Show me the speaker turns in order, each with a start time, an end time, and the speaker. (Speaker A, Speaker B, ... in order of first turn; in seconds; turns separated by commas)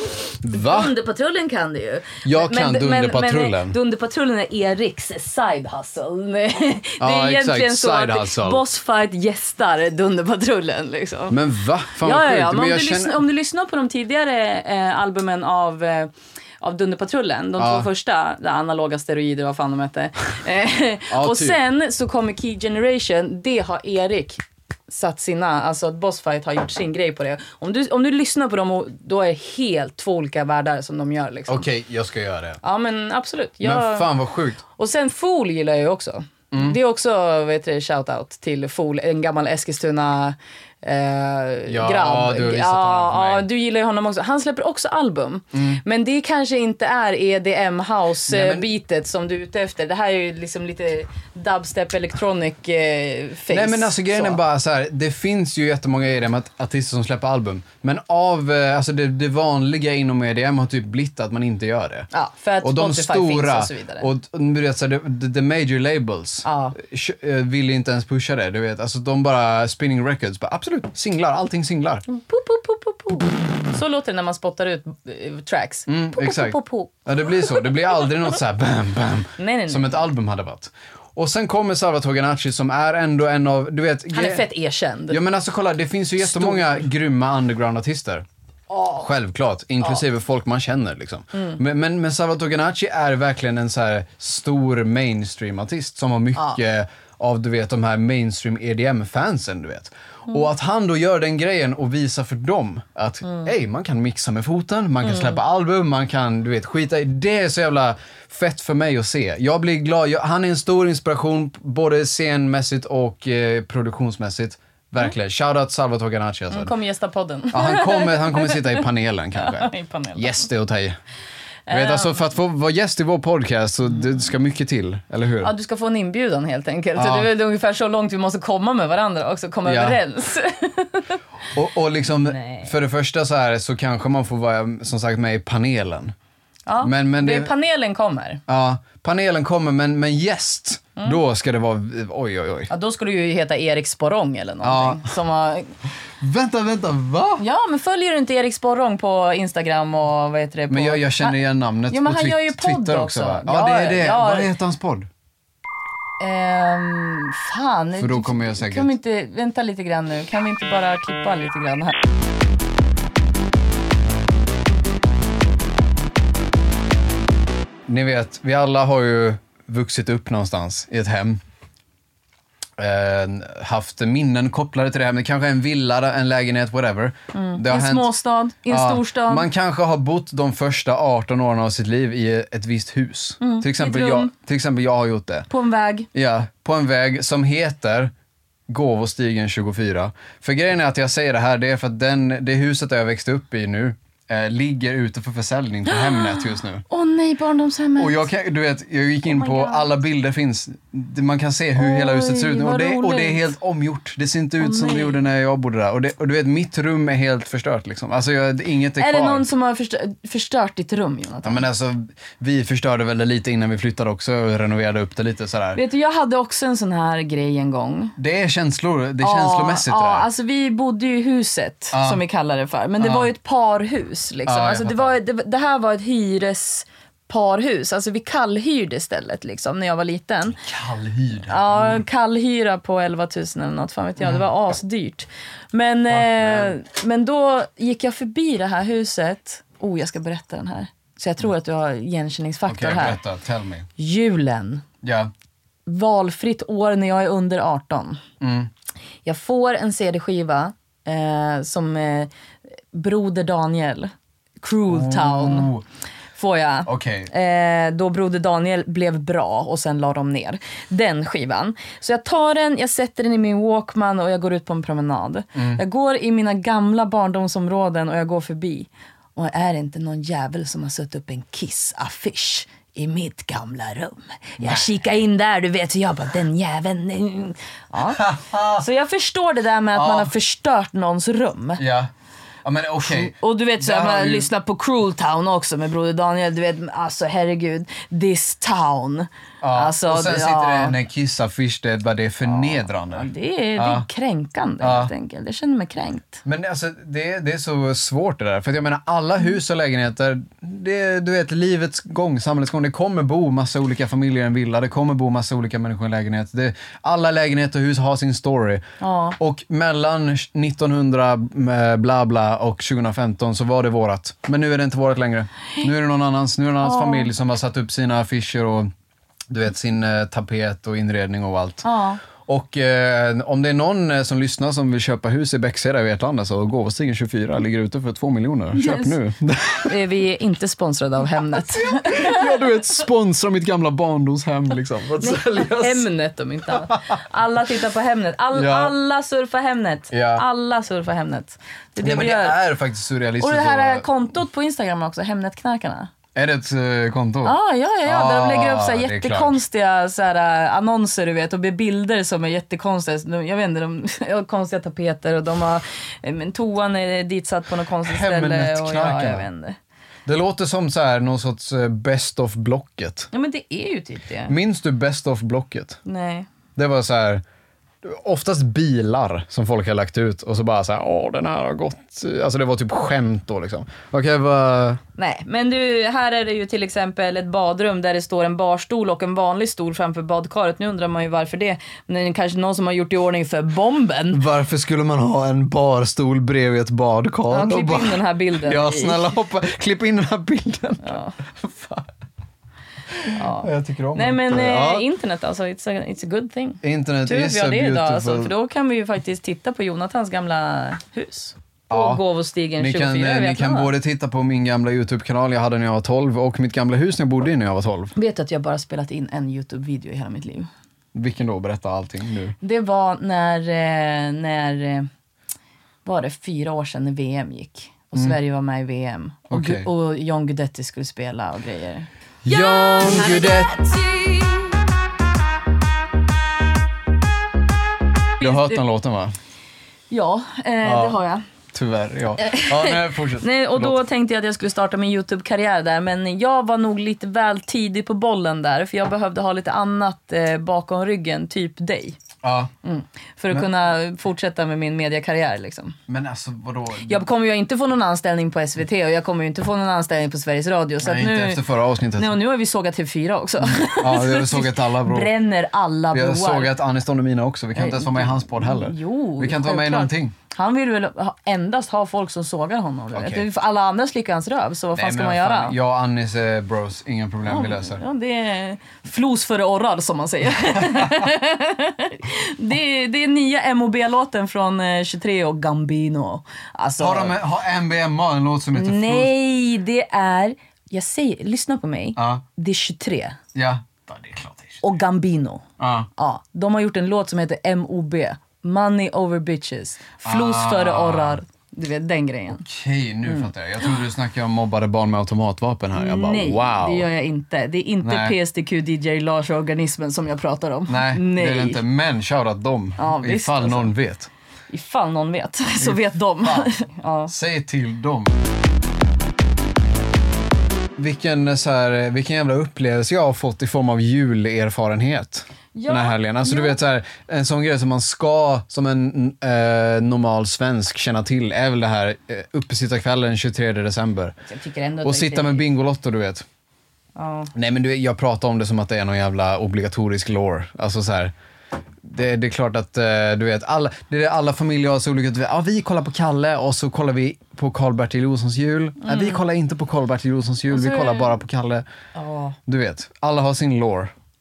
Speaker A: 0.4-0.9, Speaker B: 0.5-11.4, Speaker A: 2.2-3.8, Speaker A: 7.0-8.6, Speaker A: 11.3-13.2, Speaker B: 12.0-31.7, Speaker A: 17.6-17.9, Speaker A: 21.1-21.6, Speaker A: 31.5-32.6, Speaker B: 32.6-34.1, Speaker A: 33.6-34.6, Speaker B: 34.7-54.4, Speaker A: 36.5-36.8, Speaker A: 41.7-43.5, Speaker A: 45.5-45.8, Speaker A: 48.3-48.7, Speaker A: 53.5-62.1, Speaker B: 62.1-64.1, Speaker A: 62.6-72.0, Speaker B: 66.4-66.8, Speaker B: 72.1-76.9, Speaker A: 75.9-84.5, Speaker B: 79.4-80.0, Speaker B: 84.1-85.2, Speaker A: 85.1-88.3, Speaker B: 86.2-86.8, Speaker B: 88.7-89.1, Speaker A: 89.0-116.7, Speaker B: 105.0-105.4, Speaker B: 116.5-118.8, Speaker A: 117.5-121.0, Speaker B: 119.4-120.4, Speaker B: 121.7-122.2, Speaker A: 121.7-125.5, Speaker B: 125.4-131.2, Speaker A: 127.0-127.3, Speaker A: 129.7-130.0, Speaker A: 131.5-136.1, Speaker B: 132.2-132.7, Speaker B: 136.7-138.4, Speaker A: 136.8-137.5, Speaker A: 138.5-142.7, Speaker B: 142.7-145.7, Speaker A: 144.6-145.1, Speaker A: 146.2-147.4, Speaker B: 147.4-151.4, Speaker A: 150.7-155.1, Speaker B: 151.9-154.5, Speaker B: 156.2-161.9, Speaker A: 158.0-158.9, Speaker A: 167.9-171.4, Speaker A: 172.8-178.1, Speaker B: 177.3-179.5, Speaker A: 178.7-185.5, Speaker B: 183.4-184.3, Speaker B: 185.5-186.1, Speaker A: 186.1-188.1, Speaker A: 188.7-196.8, Speaker B: 195.9-198.3, Speaker A: 198.0-209.5, Speaker B: 199.3-199.9, Speaker B: 201.8-203.5, Speaker B: 204.6-205.2, Speaker B: 209.0-211.7, Speaker A: 211.4-215.8, Speaker B: 215.8-218.2, Speaker A: 218.2-220.3, Speaker B: 219.2-230.6, Speaker A: 221.9-222.2, Speaker A: 223.0-223.3, Speaker A: 224.5-225.2, Speaker A: 230.6-232.0, Speaker B: 231.5-243.2, Speaker A: 236.1-236.7, Speaker A: 242.7-243.9, Speaker B: 244.0-244.9, Speaker A: 245.0-245.3, Speaker B: 245.9-248.2, Speaker A: 248.4-248.7, Speaker B: 249.2-252.3, Speaker B: 252.9-255.7, Speaker A: 254.9-255.8, Speaker B: 256.4-281.8, Speaker A: 256.9-257.3, Speaker A: 265.6-265.8, Speaker A: 274.6-274.9, Speaker A: 278.0-278.9, Speaker A: 279.9-280.3, Speaker A: 281.8-282.1, Speaker A: 282.6-284.5, Speaker B: 283.0-291.0, Speaker A: 289.6-294.1, Speaker B: 293.1-296.4, Speaker A: 294.8-295.1, Speaker A: 296.4-308.8, Speaker B: 309.0-309.4, Speaker A: 309.4-318.9, Speaker B: 316.8-317.3, Speaker A: 319.5-330.0, Speaker B: 321.8-322.2, Speaker B: 328.7-329.2, Speaker B: 329.9-332.6, Speaker A: 331.5-336.1, Speaker B: 335.2-342.6, Speaker A: 336.7-337.1, Speaker A: 338.5-338.9, Speaker A: 340.1-340.4, Speaker A: 342.0-344.1, Speaker B: 343.4-346.1, Speaker A: 346.4-349.6, Speaker B: 347.4-359.8, Speaker A: 358.0-359.5, Speaker A: 360.3-363.3, Speaker B: 363.3-364.6, Speaker A: 364.5-366.0, Speaker B: 366.1-366.5, Speaker A: 366.8-367.4, Speaker A: 368.0-375.0, Speaker B: 375.2-384.4, Speaker A: 384.3-392.1, Speaker B: 387.5-389.4, Speaker B: 391.0-391.4, Speaker A: 393.1-395.1, Speaker B: 393.3-403.9, Speaker A: 396.8-398.5, Speaker A: 401.9-402.2, Speaker A: 402.8-408.1, Speaker B: 408.2-410.7, Speaker A: 411.1-412.6, Speaker B: 412.6-415.1, Speaker B: 416.1-424.9, Speaker A: 419.5-419.9, Speaker A: 422.4-423.8, Speaker A: 428.4-429.3, Speaker B: 430.1-431.4, Speaker A: 430.8-431.2, Speaker A: 431.7-434.0, Speaker B: 432.4-442.2, Speaker A: 442.4-442.7, Speaker B: 442.8-446.0, Speaker A: 446.1-447.3, Speaker B: 447.1-451.6, Speaker A: 451.0-452.3, Speaker B: 452.2-456.7, Speaker A: 453.6-455.3, Speaker A: 456.1-460.4, Speaker B: 457.8-465.8, Speaker A: 463.1-463.4, Speaker A: 465.0-468.0, Speaker B: 467.5-477.4, Speaker A: 470.6-471.3, Speaker A: 477.0-479.3, Speaker B: 478.7-483.4, Speaker A: 482.2-482.4, Speaker A: 483.6-484.8, Speaker B: 484.8-485.6, Speaker A: 485.8-486.1, Speaker B: 486.2-492.6, Speaker A: 490.2-491.4, Speaker A: 492.6-497.1, Speaker B: 495.9-501.8, Speaker A: 498.0-498.4, Speaker A: 500.9-504.3, Speaker B: 503.0-503.9, Speaker B: 504.7-507.3, Speaker A: 505.8-506.7, Speaker A: 507.3-508.4, Speaker A: 511.0-524.4, Speaker B: 515.8-516.8, Speaker B: 524.4-525.7, Speaker A: 525.0-526.5, Speaker B: 527.2-527.5, Speaker A: 527.5-531.3, Speaker A: 532.0-541.9, Speaker B: 539.0-539.4, Speaker B: 540.7-541.4, Speaker B: 542.1-542.6, Speaker A: 542.7-544.1